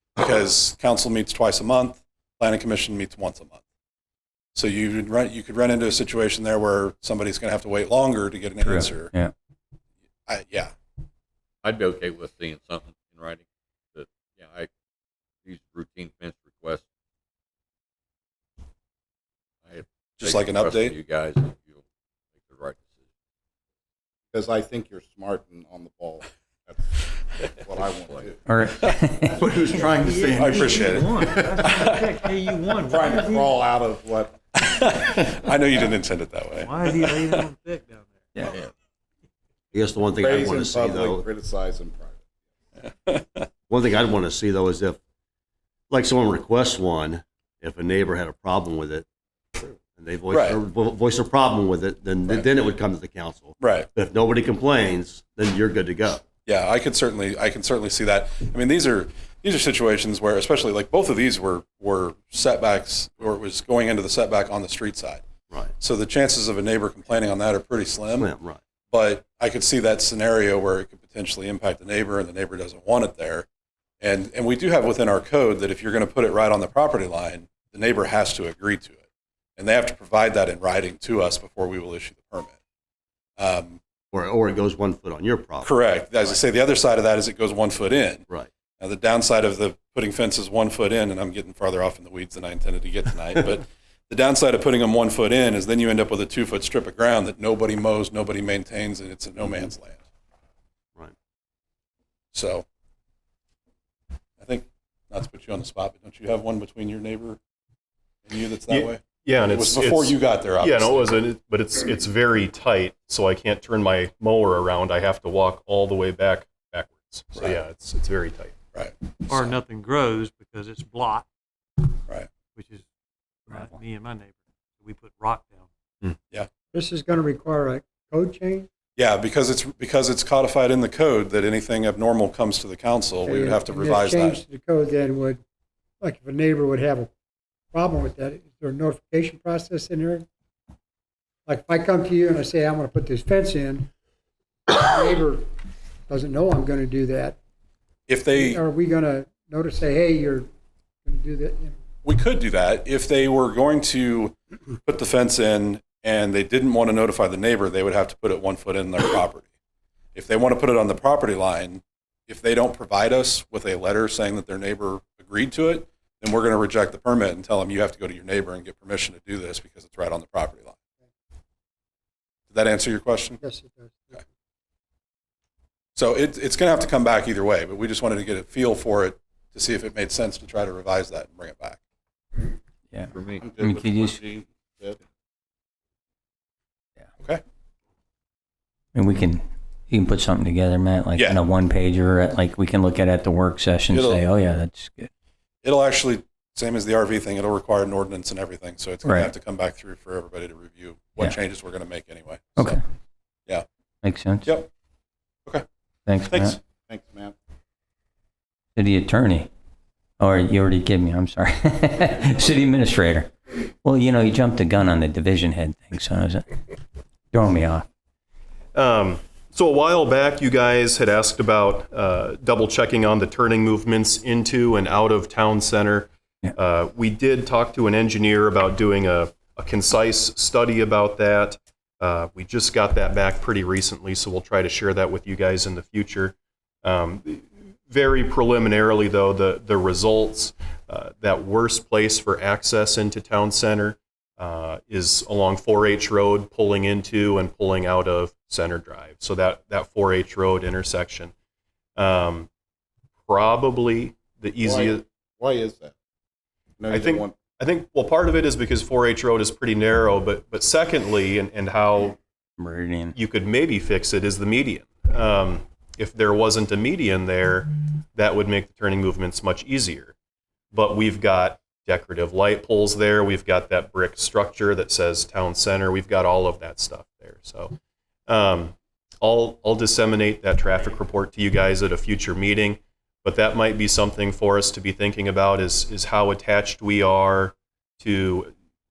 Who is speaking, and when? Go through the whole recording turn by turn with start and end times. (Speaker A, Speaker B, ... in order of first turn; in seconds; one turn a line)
Speaker A: 0.2-3.6
Speaker A: 4.5-9.1
Speaker B: 8.6-9.3
Speaker A: 10.3-10.7
Speaker C: 11.6-14.7
Speaker C: 15.4-16.9
Speaker C: 19.6-21.8
Speaker A: 20.2-20.9
Speaker C: 22.4-23.1
Speaker D: 24.3-26.9
Speaker D: 27.6-28.4
Speaker C: 27.6-28.3
Speaker B: 28.4-29.6
Speaker D: 29.4-30.5
Speaker E: 29.4-33.6
Speaker A: 30.2-32.0
Speaker D: 31.1-31.8
Speaker D: 32.7-34.4
Speaker A: 34.6-37.5
Speaker E: 36.6-38.5
Speaker F: 39.7-41.3
Speaker D: 40.2-42.2
Speaker A: 42.9-43.5
Speaker F: 43.7-45.0
Speaker F: 45.9-49.0
Speaker F: 49.8-56.2
Speaker A: 50.3-50.6
Speaker A: 53.6-53.9
Speaker A: 56.5-65.2
Speaker A: 65.8-68.3
Speaker F: 68.1-68.6
Speaker A: 68.9-73.5
Speaker A: 74.0-79.0
Speaker A: 79.6-82.6
Speaker A: 83.4-83.8
Speaker F: 84.1-85.7
Speaker A: 85.6-88.2
Speaker A: 88.8-100.0
Speaker A: 102.3-102.6
Speaker A: 104.4-107.4
Speaker A: 108.2-111.2
Speaker G: 108.7-118.5
Speaker A: 118.7-119.5
Speaker E: 119.3-121.2
Speaker E: 122.5-122.8
Speaker E: 123.5-125.7
Speaker H: 126.7-128.7
Speaker A: 128.9-134.4
Speaker H: 133.2-135.4
Speaker H: 136.0-137.1
Speaker H: 137.7-140.2
Speaker H: 141.4-143.9
Speaker H: 144.7-145.4
Speaker H: 146.1-147.4
Speaker A: 148.1-148.6
Speaker H: 148.3-150.5
Speaker H: 151.1-151.8
Speaker A: 152.0-159.5
Speaker A: 160.1-170.8
Speaker A: 172.5-173.4
Speaker H: 173.4-174.2
Speaker A: 175.9-181.8
Speaker B: 182.9-184.2
Speaker C: 183.1-183.5
Speaker D: 183.4-185.0
Speaker B: 188.9-195.1
Speaker A: 191.1-191.4
Speaker A: 193.9-194.2
Speaker A: 195.6-202.8
Speaker B: 199.0-199.3
Speaker B: 204.0-204.6
Speaker A: 204.4-204.7
Speaker B: 206.1-206.6
Speaker A: 206.3-206.6
Speaker D: 206.9-207.3
Speaker B: 208.8-209.5
Speaker B: 210.2-216.4
Speaker B: 217.3-217.8
Speaker G: 218.7-251.3
Speaker G: 252.0-252.5
Speaker G: 253.2-255.0
Speaker D: 254.6-255.9
Speaker D: 256.8-257.3
Speaker G: 256.9-262.2
Speaker B: 262.6-263.1
Speaker G: 263.1-270.1
Speaker G: 270.7-277.7
Speaker G: 278.3-288.5